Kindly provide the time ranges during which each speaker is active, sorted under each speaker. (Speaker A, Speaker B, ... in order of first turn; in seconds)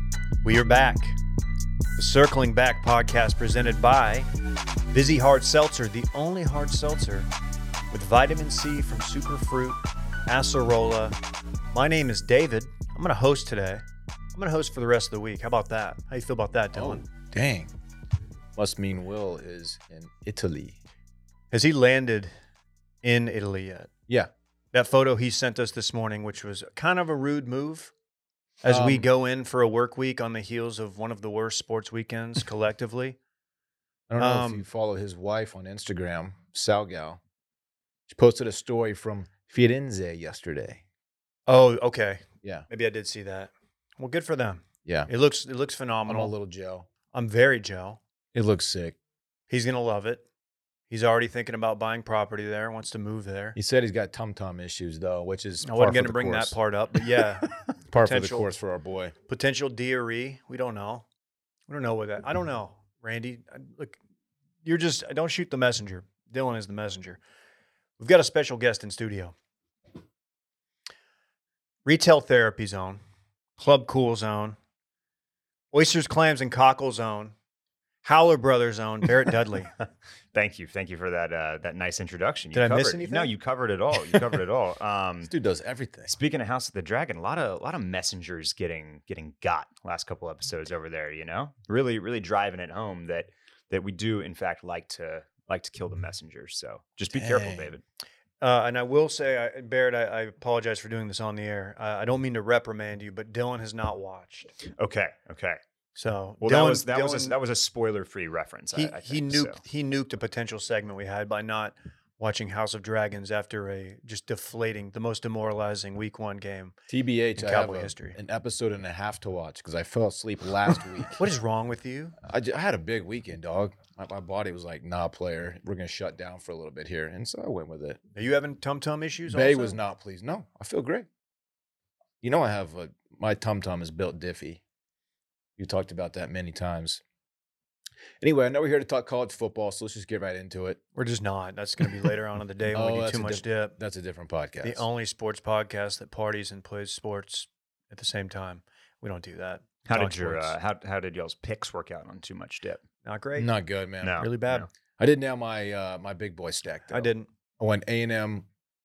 Speaker A: 0.4-1.2, 2.0-4.3, 4.9-7.3, 7.9-11.2, 11.7-13.8, 14.3-17.1, 21.5-22.3, 23.0-23.9, 24.7-27.9, 28.6-33.2, 34.2-34.6, 41.5-46.3, 47.1-48.0, 49.5-50.2, 50.9-53.6, 55.6-58.5, 59.3-61.0, 61.7-64.0, 64.6-67.2, 68.0-69.3, 71.8-73.0, 73.6-74.6, 75.7-77.3, 78.0-79.7, 82.5-83.3, 98.4-104.5, 106.0-107.3, 108.7-116.7, 117.4-118.2, 121.2-122.2, 128.1-129.7, 140.9-143.7, 144.6-150.6, 153.0-153.5, 154.2-154.7, 156.9-157.3
Speaker B: 16.7-17.7, 18.6-20.8, 28.6-29.1, 34.1-37.2, 38.1-40.8, 46.1-46.9, 48.3-49.0, 53.5-56.5, 57.9-59.1, 85.2-86.1, 97.1-97.7, 116.9-121.2, 122.2-128.0, 129.3-131.1, 132.2-134.6, 135.6-137.0, 138.2-140.8, 142.7-144.8, 153.4-154.2, 155.0-158.5
Speaker C: 80.3-85.3, 86.1-97.8, 104.8-105.6, 106.4-109.6, 149.8-152.8, 154.0-154.7